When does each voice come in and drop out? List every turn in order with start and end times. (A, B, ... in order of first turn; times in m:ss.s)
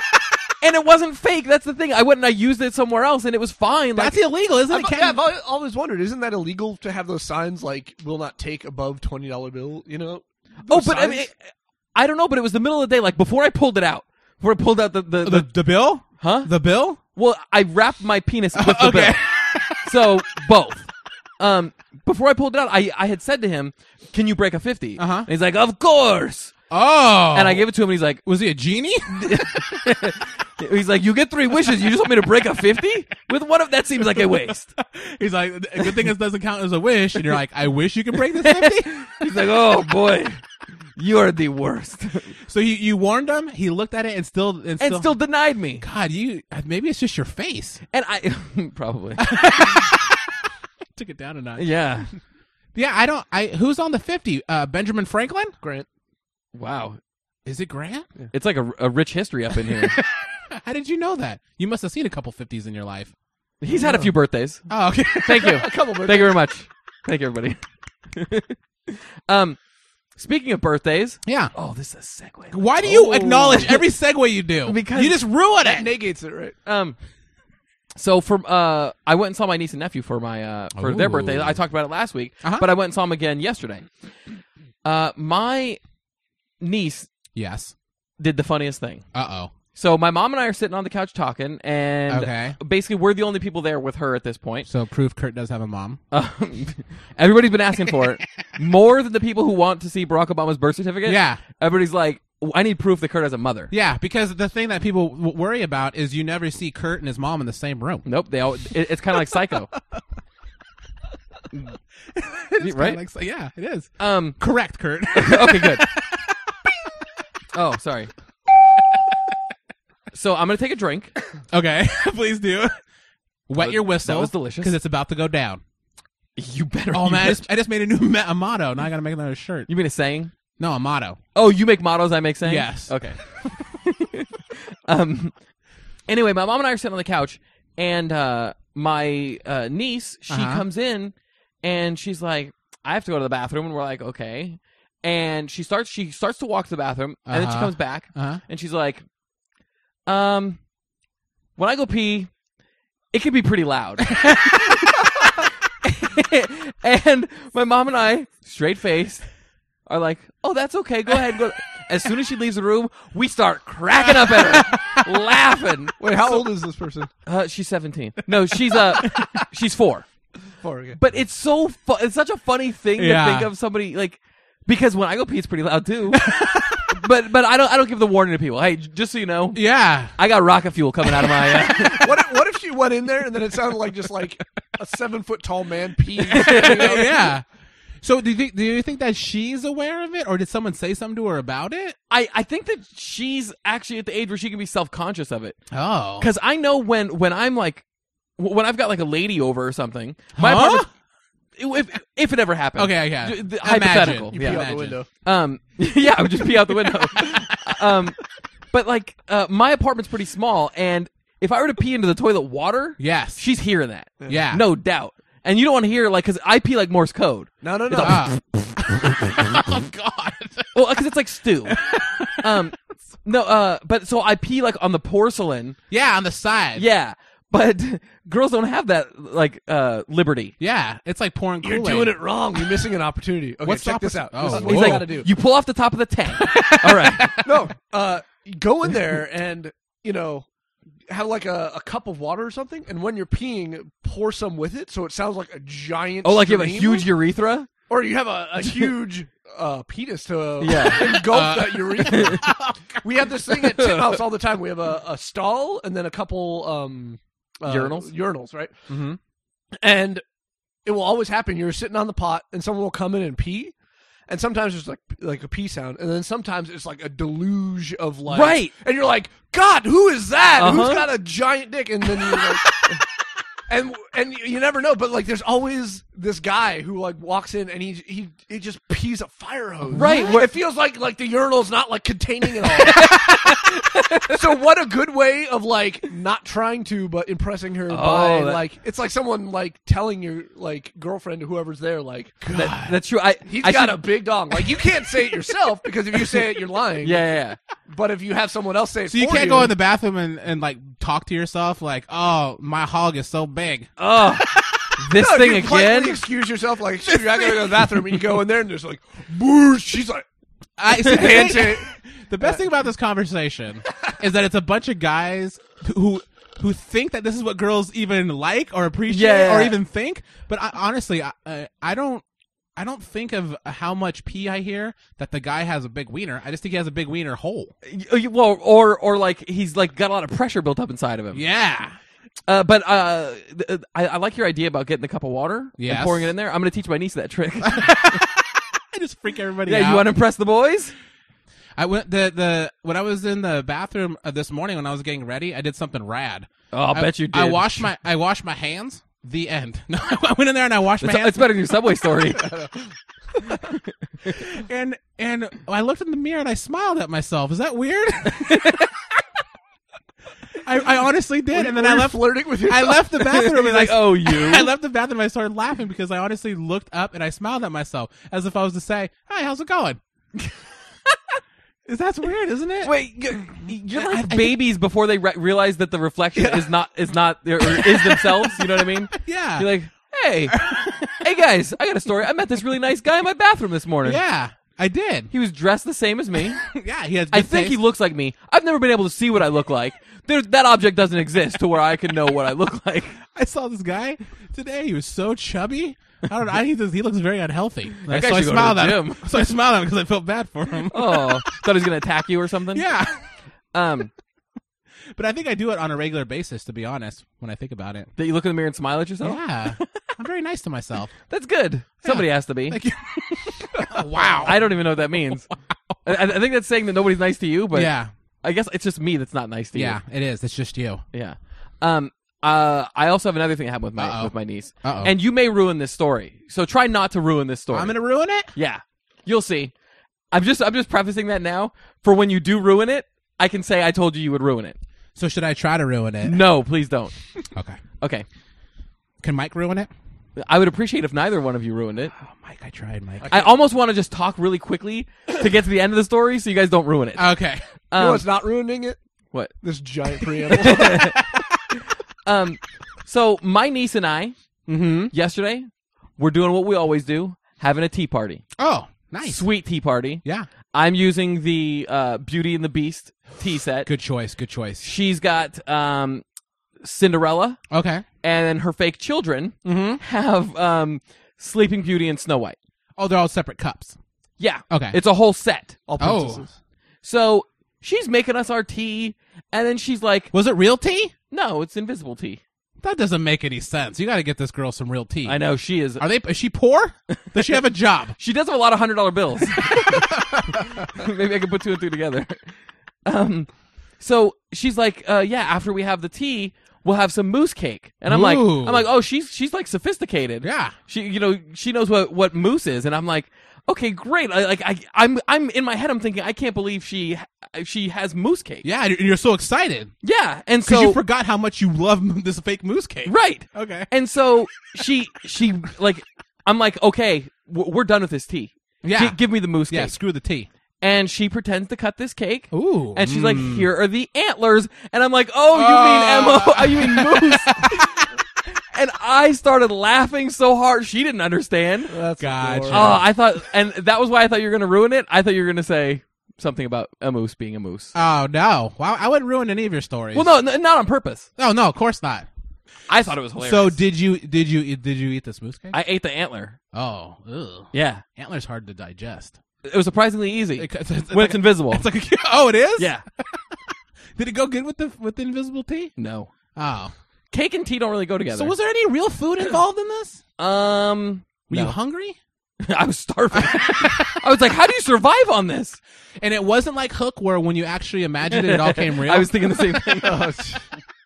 0:00.6-0:04.2 A
0:04.0-0:05.2 B
0:04.7-0:11.3 C
0:10.7-0:11.3 A
0:12.0-0:15.5 A
0:15.2-0:17.0 B
0:16.0-0:16.5 A
0:17.0-0:19.2 A
0:18.5-0:19.9 B
0:19.7-0:20.9 A
0:21.4-0:26.5 A
0:25.0-0:25.3 B
0:26.7-0:27.7 B
0:27.3-0:28.2 A
0:28.2-0:29.7 B
0:29.1-0:34.7 A
0:34.1-0:38.9 B
0:38.4-0:40.4 A
0:41.0-0:42.3 A
0:42.5-0:45.2 B
0:44.8-0:45.8 A
0:45.8-0:47.8 B
0:47.9-0:49.4 A
0:49.2-0:50.1 B
0:51.0-0:51.7 B
0:51.6-0:52.1 A
0:52.8-0:55.5 B
0:55.6-0:55.9 C
0:56.5-0:57.0 A
0:57.4-0:58.1 B
0:58.3-1:00.0 A
0:59.7-1:03.1 B
1:03.6-1:04.6 A
1:03.7-1:04.1 C
1:04.7-1:05.6 B
1:05.2-1:07.6 A
1:05.4-1:06.4 C
1:08.1-1:09.6 A
1:10.2-1:13.9 A
1:11.3-1:11.5 B
1:12.5-1:15.9 B
1:14.6-1:15.2 A
1:15.6-1:16.6 C
1:16.6-1:17.0 A
1:18.0-1:23.9 A
1:20.8-1:21.6 B
1:22.4-1:22.7 B
1:24.8-1:25.8 A
1:26.6-1:27.1 A
1:27.4-1:27.7 B
1:28.2-1:29.0 A
1:29.1-1:29.5 B
1:29.7-1:34.7 A
1:32.1-1:32.6 B
1:34.7-1:36.0 B
1:36.1-1:43.7 A
1:41.0-1:41.4 B
1:43.7-1:48.1 B
1:48.0-1:49.7 A
1:52.2-1:56.7 B
1:52.6-1:53.0 A
1:54.0-1:54.4 A
1:55.1-1:55.9 A
1:57.5-1:58.1 A
2:00.1-2:01.1 A
2:01.5-2:02.8 B
2:03.5-2:05.6 B
2:03.6-2:04.8 A
2:06.4-2:07.5 A
2:06.9-2:09.7 B
2:09.7-2:10.3 A
2:10.6-2:11.2 B
2:11.4-2:13.2 A
2:12.4-2:13.0 B
2:13.8-2:15.3 A
2:16.1-2:29.0 A
2:20.3-2:20.7 B
2:27.3-2:28.4 B
2:30.0-2:30.6 A
2:31.6-2:32.3 A
2:33.1-2:34.8 A
2:34.1-2:34.7 B
2:35.8-2:39.2 A
2:39.9-2:46.0 A
2:44.1-2:45.0 B
2:46.0-2:47.1 C
2:47.3-2:50.1 A
2:48.5-2:49.4 B
2:50.6-2:51.0 C
2:51.0-2:56.3 A
2:53.0-2:53.5 B
2:56.1-2:56.9 B
2:56.9-3:02.1 A
2:59.5-3:00.2 B
3:01.8-3:07.3 C
3:06.3-3:07.0 A
3:06.3-3:07.4 B
3:08.0-3:12.0 B
3:12.1-3:15.6 A
3:15.7-3:16.3 B
3:16.2-3:17.8 A
3:18.4-3:20.9 A
3:20.4-3:20.9 B
3:21.6-3:28.2 A
3:22.8-3:25.0 B
3:24.3-3:25.1 C
3:28.7-3:38.2 A
3:33.0-3:33.4 B
3:34.3-3:34.7 B
3:37.6-3:38.3 C
3:38.0-3:40.8 B
3:40.7-3:41.8 A
3:41.7-3:42.6 B
3:42.4-3:45.8 A
3:45.9-3:46.8 B
3:46.8-3:50.5 A
3:50.6-3:52.3 B
3:51.6-3:55.3 C
3:53.6-3:55.2 B
3:54.5-3:57.4 A
3:56.4-3:57.4 B
3:57.4-4:00.5 C
4:01.1-4:07.1 C
4:06.2-4:07.7 A
4:07.9-4:18.7 C
4:10.6-4:11.2 A
4:10.8-4:13.0 B
4:12.1-4:12.4 A
4:13.8-4:14.2 A
4:17.7-4:18.1 A
4:18.9-4:19.2 B
4:19.8-4:20.2 C
4:20.9-4:23.7 C
4:24.3-4:33.0 C
4:28.3-4:28.7 A
4:30.6-4:31.1 A
4:33.7-4:43.6 C
4:39.9-4:40.3 B
4:39.9-4:40.5 A
4:42.9-4:44.3 A
4:44.3-4:52.4 C
4:47.9-4:48.6 A
4:52.4-4:53.0 B
4:52.5-4:54.1 A
4:53.5-4:57.2 C
4:57.0-4:57.6 A
4:57.9-4:59.7 C
4:59.1-5:03.9 B
5:04.0-5:06.2 A
5:04.4-5:04.8 B
5:05.2-5:10.2 C
5:07.1-5:07.8 B
5:10.8-5:22.2 B
5:11.0-5:11.9 C
5:19.1-5:19.8 A
5:22.8-5:27.7 B
5:27.8-5:31.4 A
5:31.3-5:32.0 B
5:32.5-5:38.0 A
5:35.8-5:36.3 B
5:37.6-5:40.1 B
5:39.7-5:40.9 A
5:41.8-5:51.7 B
5:46.7-5:47.8 A
5:51.0-5:52.5 A
5:52.4-5:52.8 C
5:54.2-5:58.8 B
5:58.5-5:58.8 A
6:00.6-6:10.0 B
6:01.5-6:03.1 C
6:03.2-6:04.7 A
6:11.9-6:12.9 B
6:12.8-6:24.2 A
6:13.9-6:14.6 B
6:16.4-6:16.7 C
6:19.1-6:19.7 B
6:20.5-6:21.2 B
6:24.0-6:25.3 B
6:25.3-6:26.6 A
6:26.6-6:27.8 B
6:27.3-6:33.2 A
6:33.3-6:41.4 B
6:38.1-6:39.3 A
6:40.9-6:42.9 A
6:42.7-6:43.2 B
6:43.7-6:44.1 A
6:45.2-6:48.1 B
6:48.2-6:49.8 A
6:49.2-6:51.1 B
6:51.3-6:52.8 A
6:52.0-6:54.7 B
6:54.4-6:55.5 A
6:56.0-6:57.9 A
6:57.7-6:58.1 B
6:58.4-7:00.0 A
6:59.8-7:01.0 B
7:01.1-7:08.0 A
7:04.0-7:05.2 B
7:07.7-7:08.5 B
7:08.5-7:09.7 A
7:10.3-7:14.8 A
7:15.2-7:16.4 B
7:16.2-7:17.1 A
7:17.5-7:17.8 B
7:18.0-7:18.3 A
7:19.2-7:19.9 B
7:20.4-7:22.1 A
7:22.2-7:23.3 B
7:23.2-7:23.5 C
7:23.3-7:27.3 A
7:27.2-7:27.6 B
7:27.9-7:28.3 A
7:28.0-7:29.0 C
7:29.6-7:31.1 C
7:30.6-7:31.2 A
7:32.3-7:34.4 A
7:34.7-7:35.1 B
7:35.1-7:38.4 A
7:38.6-7:39.5 B
7:39.2-7:43.9 A
7:43.8-7:44.8 B
7:44.8-7:46.2 A
7:46.8-7:47.6 A
7:47.7-7:48.0 B
7:48.2-7:52.6 A
7:49.6-7:50.0 B
7:53.0-7:54.0 B
7:54.4-7:55.8 A
7:54.7-7:55.0 B
7:55.9-7:56.5 C
7:56.0-7:56.4 B
7:57.0-8:00.3 A
8:00.3-8:01.1 B
8:01.3-8:02.4 A
8:02.8-8:05.4 B
8:05.3-8:06.0 A
8:06.0-8:08.2 B
8:08.2-8:12.4 A
8:09.7-8:10.6 B
8:13.1-8:28.7 A
8:18.1-8:18.9 B
8:20.4-8:20.7 B
8:28.6-8:29.9 B
8:30.0-8:31.0 A
8:30.6-8:33.9 B
8:33.1-8:40.0 A
8:38.8-8:40.5 B
8:40.8-8:47.9 A
8:42.5-8:43.7 B
8:45.5-8:48.1 B
8:48.7-8:51.9 A
8:51.9-8:53.0 C
8:52.2-8:53.1 B
8:52.7-8:57.9 A
8:57.9-9:00.3 B
9:00.1-9:01.3 A
9:01.4-9:02.3 B
9:02.9-9:03.8 A
9:03.4-9:05.8 B
9:05.7-9:06.6 A
9:06.7-9:09.4 B
9:07.7-9:08.0 A
9:09.6-9:11.9 A
9:10.6-9:13.4 B
9:12.8-9:13.0 A
9:14.2-9:15.9 B
9:16.0-9:16.3 A
9:16.6-9:16.9 B
9:17.3-9:18.6 A
9:18.3-9:20.2 B
9:20.4-9:21.8 A
9:21.5-9:22.2 B
9:22.6-9:25.8 A
9:23.4-9:24.2 B
9:26.2-9:30.2 B
9:28.3-9:30.3 A
9:30.0-9:30.6 C